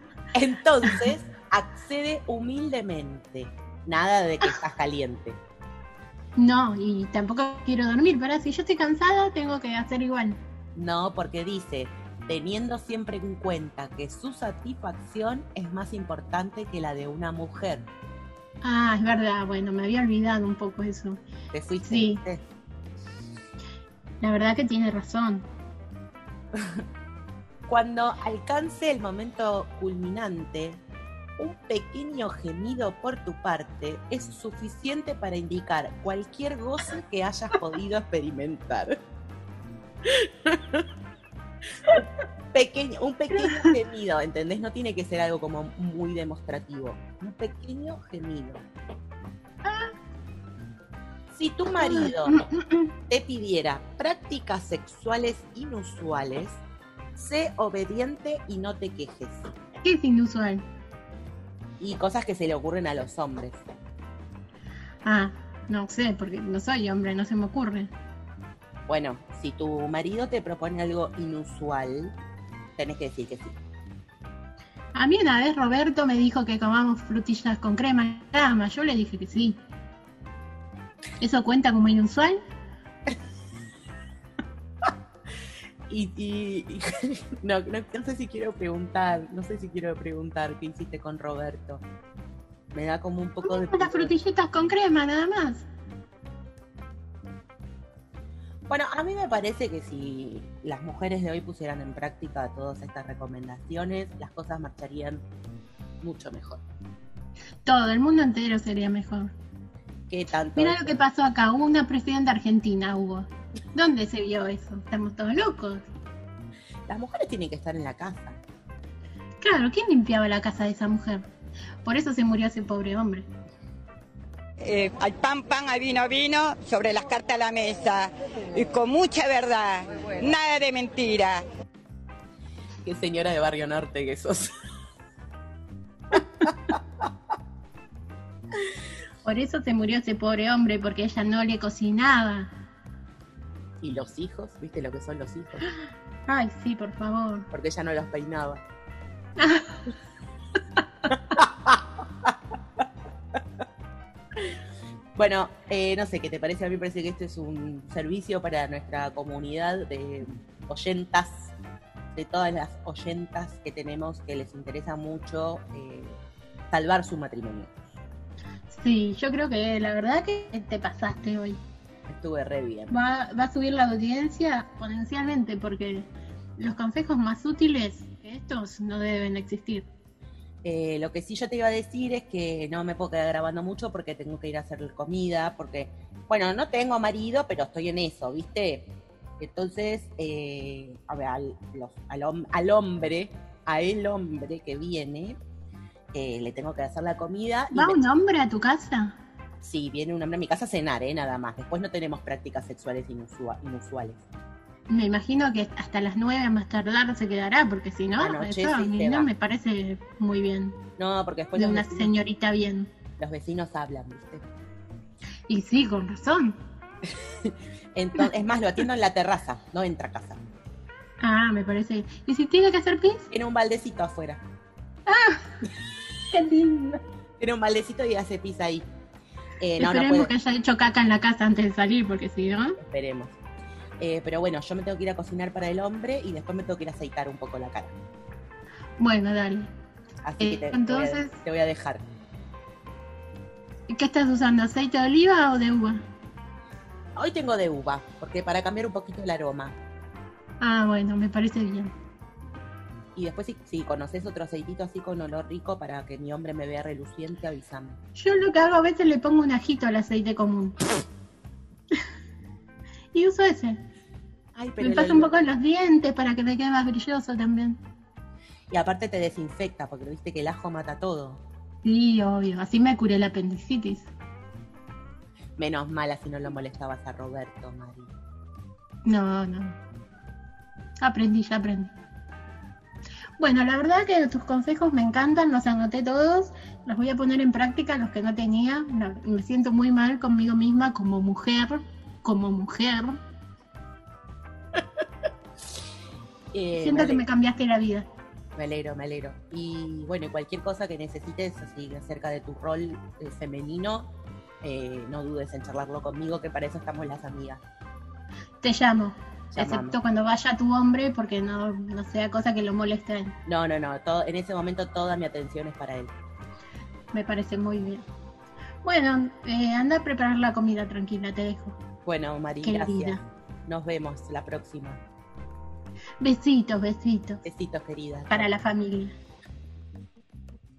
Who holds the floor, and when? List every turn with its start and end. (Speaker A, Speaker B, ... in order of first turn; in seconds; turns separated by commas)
Speaker A: 0.3-5.4, Speaker B: 6.4-10.4, Speaker A: 10.8-17.9, Speaker B: 18.6-21.2, Speaker A: 21.5-22.4, Speaker B: 21.9-22.2, Speaker B: 24.2-25.5, Speaker A: 27.7-30.8, Speaker A: 31.4-39.0, Speaker A: 40.0-40.9, Speaker A: 41.9-48.6, Speaker B: 49.6-49.9, Speaker A: 51.3-52.4, Speaker B: 51.8-52.9, Speaker A: 53.1-56.6, Speaker A: 57.2-59.5, Speaker B: 59.8-60.6, Speaker A: 61.8-63.6, Speaker B: 65.0-67.9, Speaker A: 68.9-72.2, Speaker A: 72.8-73.6, Speaker B: 74.9-79.6, Speaker B: 81.2-82.4, Speaker A: 85.9-91.8, Speaker A: 92.7-94.1, Speaker B: 93.4-95.7, Speaker A: 98.7-105.2, Speaker A: 106.0-106.6, Speaker B: 107.7-109.3, Speaker A: 110.1-111.0, Speaker B: 110.6-115.9, Speaker A: 116.9-118.4, Speaker B: 119.4-121.2, Speaker B: 121.8-123.3, Speaker C: 124.6-131.4, Speaker A: 132.8-134.5, Speaker B: 139.2-142.5, Speaker A: 143.8-145.7, Speaker B: 146.3-147.5, Speaker A: 147.5-148.6, Speaker B: 149.4-149.8, Speaker A: 151.3-152.3, Speaker A: 155.2-161.5, Speaker A: 162.1-166.2, Speaker A: 166.7-167.8, Speaker B: 168.7-171.6, Speaker A: 172.1-172.9, Speaker B: 172.9-176.1, Speaker B: 176.6-179.9, Speaker A: 180.6-188.9, Speaker A: 189.4-195.4, Speaker A: 196.1-198.0, Speaker B: 197.7-199.2, Speaker A: 199.6-204.2, Speaker B: 204.9-210.8, Speaker A: 208.2-209.3, Speaker A: 211.0-212.1, Speaker B: 211.6-212.9, Speaker A: 213.2-214.5, Speaker B: 215.5-216.6, Speaker A: 217.4-220.4, Speaker B: 221.2-223.3, Speaker A: 223.3-224.4, Speaker B: 225.1-225.7, Speaker B: 226.3-227.0, Speaker A: 227.4-228.9, Speaker A: 229.6-230.3, Speaker B: 229.8-232.8, Speaker A: 232.8-233.3, Speaker A: 234.0-237.9, Speaker B: 239.0-239.7, Speaker A: 240.2-242.0, Speaker B: 240.4-241.4, Speaker B: 243.9-246.0, Speaker A: 247.2-249.8, Speaker B: 250.6-251.9, Speaker A: 253.2-258.0, Speaker B: 258.2-260.9, Speaker B: 263.1-263.8, Speaker A: 264.6-265.3, Speaker B: 264.8-267.8, Speaker A: 268.7-271.4, Speaker B: 271.8-274.1, Speaker A: 275.6-278.1, Speaker B: 279.1-279.8, Speaker B: 281.0-281.9, Speaker B: 283.4-293.2, Speaker A: 296.5-297.2, Speaker B: 296.8-298.1, Speaker A: 298.6-304.1, Speaker A: 304.6-307.6, Speaker B: 308.6-313.4, Speaker A: 309.5-310.0, Speaker A: 313.5-316.1, Speaker B: 317.1-318.1, Speaker B: 318.8-321.8, Speaker A: 322.1-325.0, Speaker B: 322.6-323.2, Speaker B: 326.2-327.4, Speaker A: 327.4-328.5, Speaker B: 328.3-329.1